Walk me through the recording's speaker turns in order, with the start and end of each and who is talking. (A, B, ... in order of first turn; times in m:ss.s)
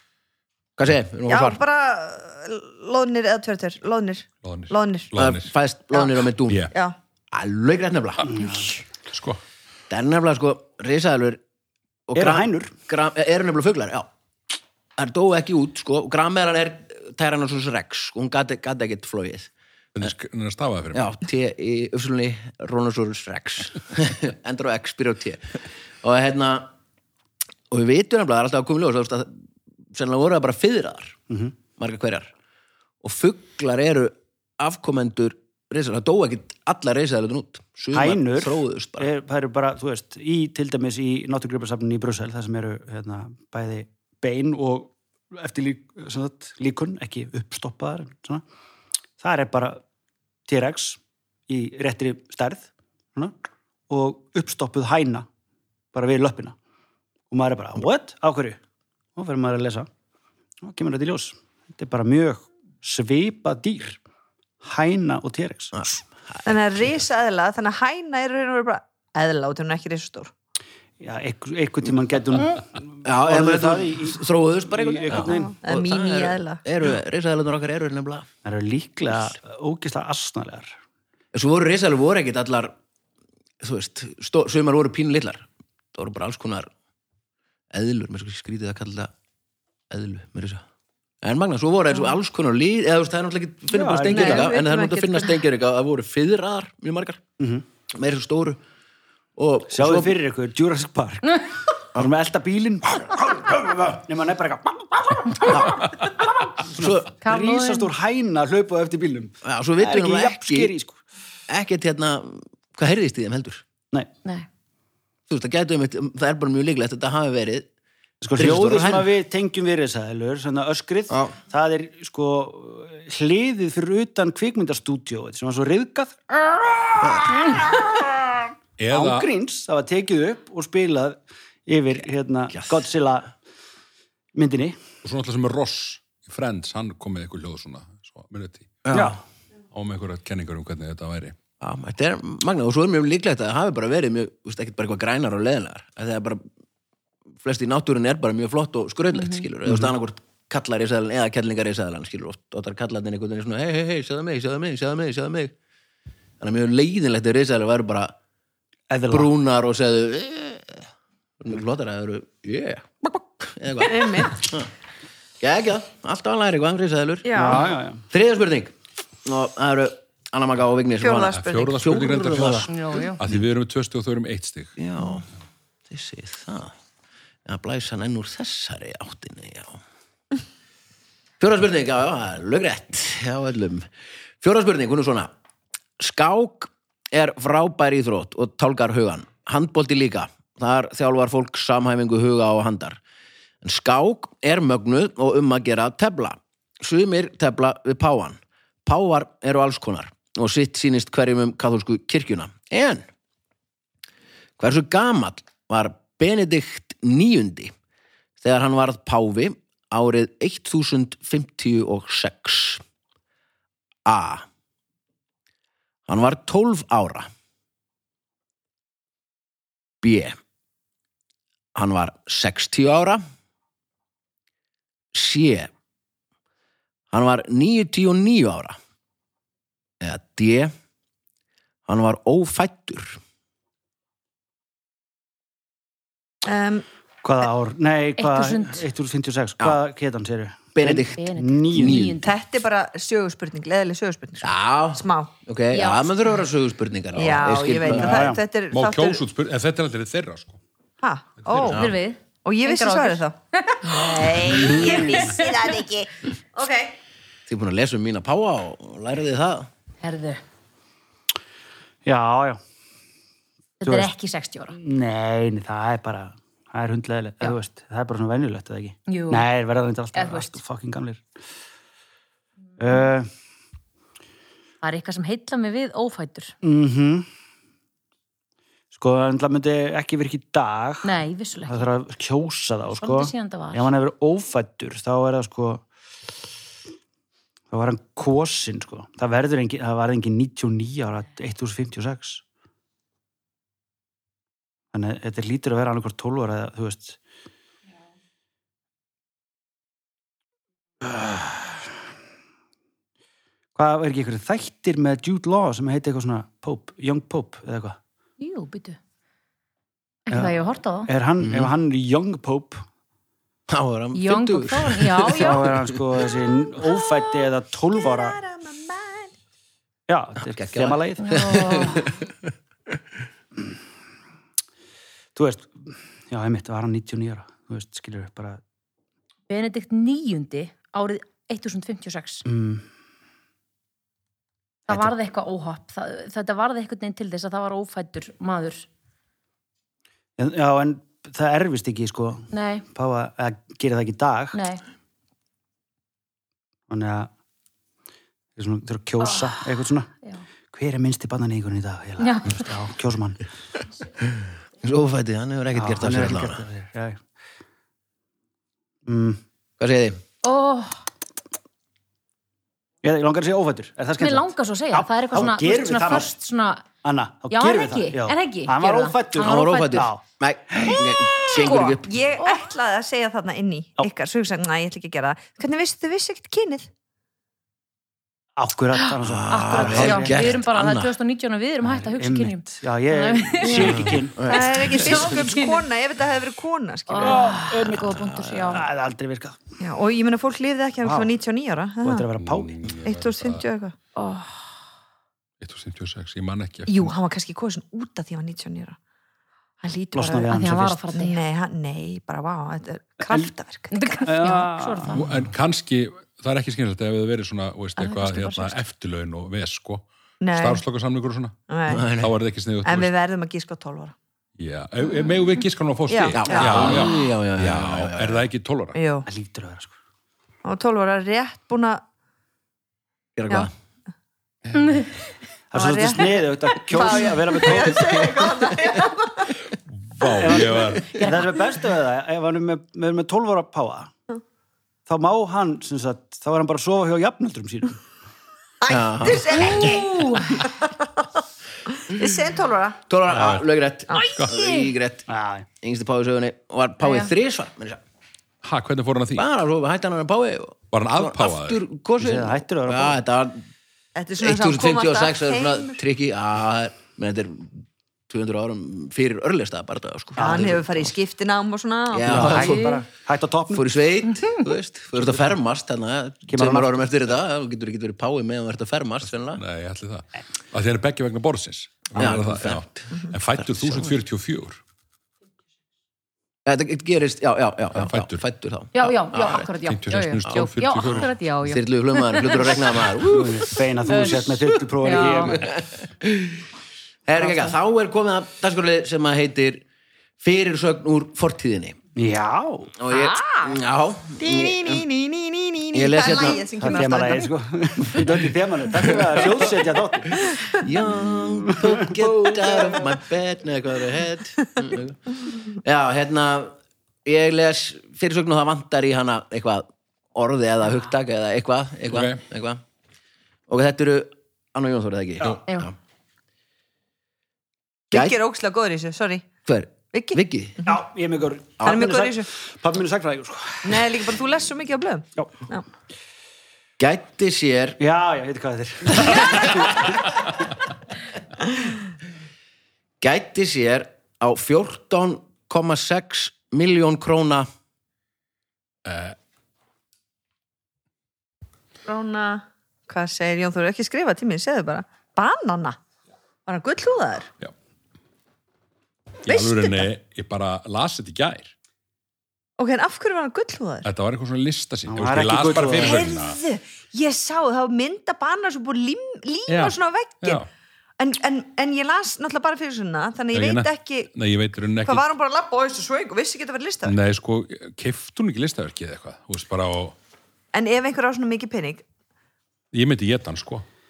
0:00.8-0:01.6 A
0:01.3-0:05.1 B
0:04.4-0:05.5 C
0:05.2-0:06.7 A
0:06.5-0:06.7 C
0:07.3-0:08.4 A
0:08.3-0:08.7 D
0:09.1-0:09.4 C
0:09.9-0:11.4 A
0:12.1-0:14.1 A
0:12.1-0:12.7 D
0:15.0-0:19.5 A
0:19.9-0:21.0 C
0:20.9-0:26.7 A
0:27.7-0:29.4 A
0:29.9-0:31.2 A
0:31.3-0:31.5 D
0:31.8-0:32.3 A
0:33.0-0:39.1 A
0:37.9-0:48.4 D
0:49.2-0:49.8 D
0:50.5-0:53.3 D
0:53.9-0:55.3 D
0:55.9-0:56.6 D
0:57.3-0:58.6 D
0:59.2-0:59.9 D
1:00.6-1:04.0 D
1:04.6-1:05.9 D
1:05.7-1:06.6 A
1:06.4-1:10.3 B
1:11.0-1:15.6 D
1:13.0-1:18.3 A
1:15.1-1:16.6 B
1:18.4-1:20.8 D
1:21.3-1:22.7 A
1:23.6-1:26.7 A
1:27.7-1:29.1 A
1:29.9-1:30.6 A
1:31.2-1:37.2 A
1:33.7-1:34.5 D
1:34.1-1:35.4 B
1:37.4-1:37.6 D
1:37.9-1:38.6 A
1:39.4-1:40.2 A
1:39.7-1:51.0 D
1:45.5-1:45.8 A
1:46.7-1:47.1 A
1:47.2-1:47.9 E
1:49.4-1:50.7 A
1:51.5-1:53.6 A
1:55.3-1:57.7 A
1:58.2-2:13.3 D
1:58.3-1:59.1 A
2:01.1-2:01.3 A
2:07.0-2:07.4 A
2:08.8-2:09.3 C
2:12.5-2:12.8 A
2:14.3-2:14.8 D
2:15.0-2:19.0 C
2:18.8-2:19.2 A
2:18.9-2:19.2 D
2:19.7-2:21.4 C
2:21.6-2:26.4 A
2:27.4-2:35.5 A
2:36.4-2:38.1 A
2:38.9-2:39.3 D
2:39.1-2:40.9 A
2:41.4-2:44.7 A
2:43.8-2:44.4 B
2:45.4-2:48.7 A
2:47.2-2:47.7 B
2:47.4-2:48.0 D
2:49.2-2:52.8 A
2:51.0-2:51.8 B
2:51.3-2:54.8 C
2:52.7-2:53.2 E
2:54.8-2:55.3 A
2:55.9-2:56.7 A
2:57.4-2:59.8 A
3:01.4-3:03.9 A
3:04.4-3:05.3 A
3:06.0-3:13.0 A
3:13.6-3:23.0 A
3:24.6-3:27.7 A
3:28.4-3:32.8 A
3:34.0-3:34.4 A
3:36.1-3:37.3 A
3:40.0-3:40.4 A
3:41.7-3:43.2 A
3:45.1-3:45.7 A
3:47.1-3:48.8 A
3:50.0-3:50.7 A
3:51.9-3:53.2 A
3:56.4-3:56.8 B
3:57.2-4:02.1 D
3:58.2-3:58.8 E
4:00.7-4:02.2 A
4:01.2-4:02.3 E
4:02.2-4:05.3 B
4:04.4-4:08.3 A
4:05.7-4:06.1 E
4:07.2-4:09.2 B
4:07.8-4:08.4 D
4:08.7-4:10.6 C
4:11.0-4:11.9 B
4:11.6-4:15.8 E
4:12.4-4:17.0 B
4:14.5-4:15.3 D
4:17.5-4:19.7 A
4:20.0-4:20.4 E
4:22.0-4:22.6 D
4:23.8-4:24.8 E
4:23.8-4:24.1 D
4:24.7-4:31.2 D
4:29.1-4:29.4 E
4:30.1-4:30.6 E
4:32.8-4:33.3 D
4:34.8-4:36.5 E
4:36.6-4:37.3 D
4:38.9-4:45.8 D
4:41.0-4:41.8 E
4:43.0-4:43.9 E
4:47.7-4:52.4 D
4:54.9-4:57.2 D
5:01.0-5:01.8 D
5:03.7-5:08.0 D
5:08.4-5:09.0 E
5:10.3-5:11.1 E
5:10.3-5:10.5 D
5:11.0-5:12.8 D
5:11.4-5:11.7 A
5:13.7-5:15.9 A
5:14.1-5:15.6 E
5:15.4-5:18.4 D
5:16.6-5:19.3 B
5:20.1-5:21.4 D
5:20.4-5:22.5 A
5:21.2-5:22.1 E
5:25.3-5:28.6 D
5:29.5-5:32.4 E
5:32.4-5:32.8 D
5:34.9-5:38.9 E
5:40.4-5:44.6 D
5:42.5-5:42.8 E
5:44.5-5:44.8 E
5:46.9-5:47.3 D
5:48.6-5:50.1 D
5:49.2-5:49.6 E
5:50.7-5:53.4 D
5:52.2-5:52.7 E
5:54.8-5:56.6 A
5:55.7-5:57.2 D
5:59.0-5:59.4 D
5:59.8-6:00.2 A
6:00.4-6:01.0 E
6:03.0-6:06.3 D
6:04.2-6:06.8 E
6:07.0-6:11.2 D
6:07.5-6:10.1 E
6:09.4-6:12.2 A
6:11.3-6:16.9 B
6:12.4-6:12.7 E
6:18.6-6:20.5 D
6:19.2-6:21.1 A
6:19.5-6:25.9 E
6:21.8-6:24.5 D
6:23.7-6:25.4 A
6:24.4-6:27.6 B
6:27.1-6:28.8 E
6:27.2-6:29.6 D
6:28.0-6:28.5 A
6:29.8-6:32.3 B
6:31.0-6:31.3 D
6:32.0-6:32.9 D
6:32.4-6:33.6 C
6:33.0-6:34.0 B
6:34.2-6:34.6 E
6:35.6-6:37.1 C
6:36.9-6:39.0 B
6:39.8-6:40.5 B
6:40.1-6:41.0 D
6:40.5-6:41.4 E
6:41.1-6:44.1 B
6:43.2-6:43.5 D
6:43.9-6:45.3 E
6:44.2-6:45.2 D
6:45.1-6:51.6 C
6:48.0-6:48.8 E
6:50.4-6:50.8 B
6:51.7-6:52.1 B
6:51.9-6:52.3 A
6:52.1-6:53.1 C
6:52.8-6:54.1 B
6:54.6-6:59.0 C
6:56.1-6:57.0 B
6:56.3-6:58.5 A
6:58.9-6:59.3 B
6:59.2-6:59.9 D
7:00.6-7:02.0 B
7:03.4-7:03.7 A
7:05.7-7:08.6 D
7:05.7-7:09.6 B
7:06.9-7:07.6 E
7:09.9-7:11.3 C
7:10.3-7:14.1 D
7:11.2-7:11.5 E
7:15.1-7:18.0 D
7:18.8-7:21.3 B
7:18.9-7:19.9 A
7:19.5-7:20.7 E
7:21.9-7:23.0 B
7:23.1-7:25.3 A
7:23.3-7:23.6 C
7:24.1-7:24.4 B
7:24.2-7:24.6 C
7:25.3-7:25.6 D
7:25.8-7:28.0 A
7:27.0-7:27.3 E
7:28.6-7:29.4 C
7:29.4-7:33.6 A
7:30.9-7:31.8 C
7:32.2-7:33.2 D
7:34.2-7:36.0 B
7:34.4-7:41.1 A
7:40.4-7:40.8 D
7:40.4-7:42.8 B
7:42.1-7:43.0 A
7:42.2-7:43.9 D
7:43.7-7:49.6 A
7:46.5-7:47.0 D
7:49.6-7:54.8 C
7:52.1-7:54.2 A
7:56.6-7:59.7 A
7:58.0-7:58.4 C
7:58.9-8:02.8 E
7:59.8-8:01.3 C
8:01.2-8:04.2 A
8:03.2-8:05.6 D
8:04.0-8:05.6 E
8:05.5-8:06.6 A
8:07.2-8:09.8 A
8:07.4-8:07.8 D
8:10.4-8:12.0 A
8:12.2-8:12.9 D
8:13.0-8:15.0 A
8:14.4-8:17.5 B
8:15.9-8:16.7 A
8:16.8-8:20.6 D
8:19.2-8:19.7 A
8:20.7-8:32.8 A
8:21.2-8:23.1 D
8:32.1-8:32.4 C
8:33.7-8:35.9 A
8:38.1-8:39.5 B
8:38.1-8:38.4 A
8:39.6-8:40.8 A
8:40.1-8:40.9 B
8:40.8-8:44.1 D
8:41.8-8:42.5 B
8:43.8-8:45.8 B
8:47.0-8:48.0 A
8:48.0-8:50.1 D
8:53.2-8:57.7 A
8:59.0-8:59.4 C
9:02.0-9:06.0 B
9:06.6-9:07.5 B
9:09.4-9:11.7 C
9:09.5-9:10.1 B
9:12.8-9:14.1 B
9:14.0-9:16.6 C
9:15.1-9:16.3 D
9:16.0-9:20.6 B
9:19.7-9:20.7 C
9:21.2-9:24.3 B
9:23.5-9:25.2 C
9:25.0-9:27.2 B
9:27.0-9:30.1 C
9:30.7-9:32.0 B
9:32.9-9:33.8 C